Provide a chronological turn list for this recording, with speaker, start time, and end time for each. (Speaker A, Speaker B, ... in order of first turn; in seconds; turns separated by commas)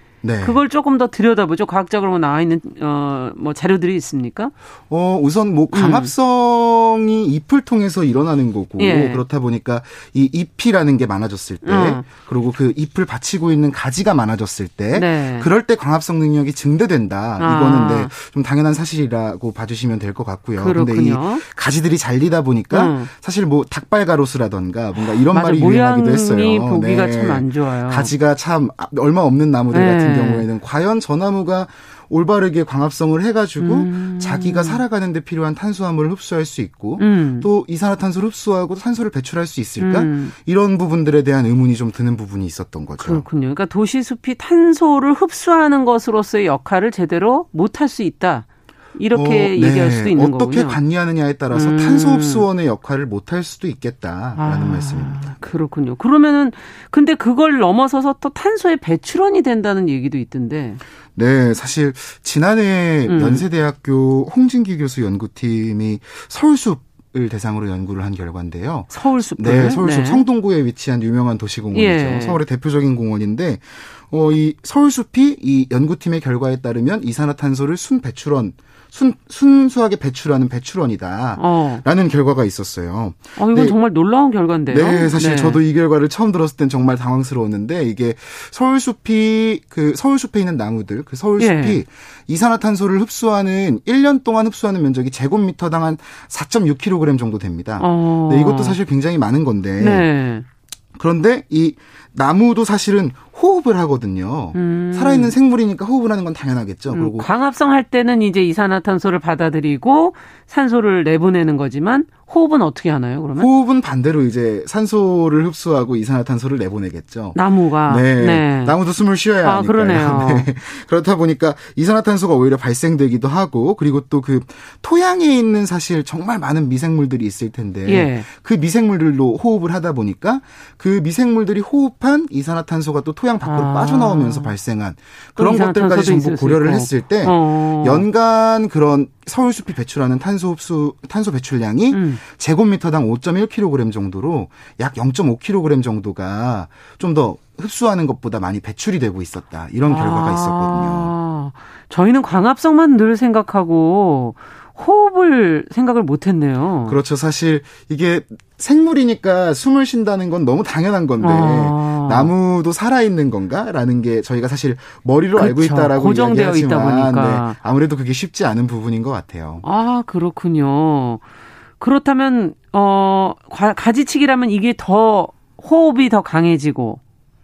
Speaker A: 0.2-0.6, Speaker B: 0.4-4.5, Speaker A: 4.9-43.2, Speaker B: 5.7-6.1, Speaker B: 8.8-9.2, Speaker B: 11.6-12.1, Speaker B: 14.9-15.5, Speaker B: 17.4-18.1, Speaker B: 20.6-21.4, Speaker B: 22.7-23.1, Speaker B: 25.0-28.1, Speaker B: 29.7-30.4, Speaker B: 33.6-34.8, Speaker B: 37.0-37.5, Speaker B: 39.8-40.3, Speaker B: 43.0-50.8, Speaker A: 49.1-55.2, Speaker B: 51.5-52.4, Speaker B: 54.4-60.8, Speaker A: 61.1-83.8, Speaker B: 63.1-63.4, Speaker B: 68.9-70.2, Speaker B: 71.7-72.4, Speaker B: 81.3-81.8, Speaker B: 83.3-85.6, Speaker A: 84.7-100.1, Speaker B: 91.4-91.8, Speaker B: 97.8-98.8, Speaker B: 99.8-100.5, Speaker A: 101.0-107.3, Speaker B: 104.5-105.3, Speaker B: 106.9-113.5, Speaker A: 113.3-151.1, Speaker B: 117.3-118.8, Speaker B: 119.4-120.5, Speaker B: 127.8-128.3, Speaker B: 133.4-134.5, Speaker B: 135.4-138.1, Speaker B: 141.9-142.2, Speaker B: 149.9-157.0, Speaker A: 156.8-169.6, Speaker B: 161.2-162.3, Speaker B: 165.4-167.6, Speaker B: 169.6-171.2, Speaker B: 171.8-177.0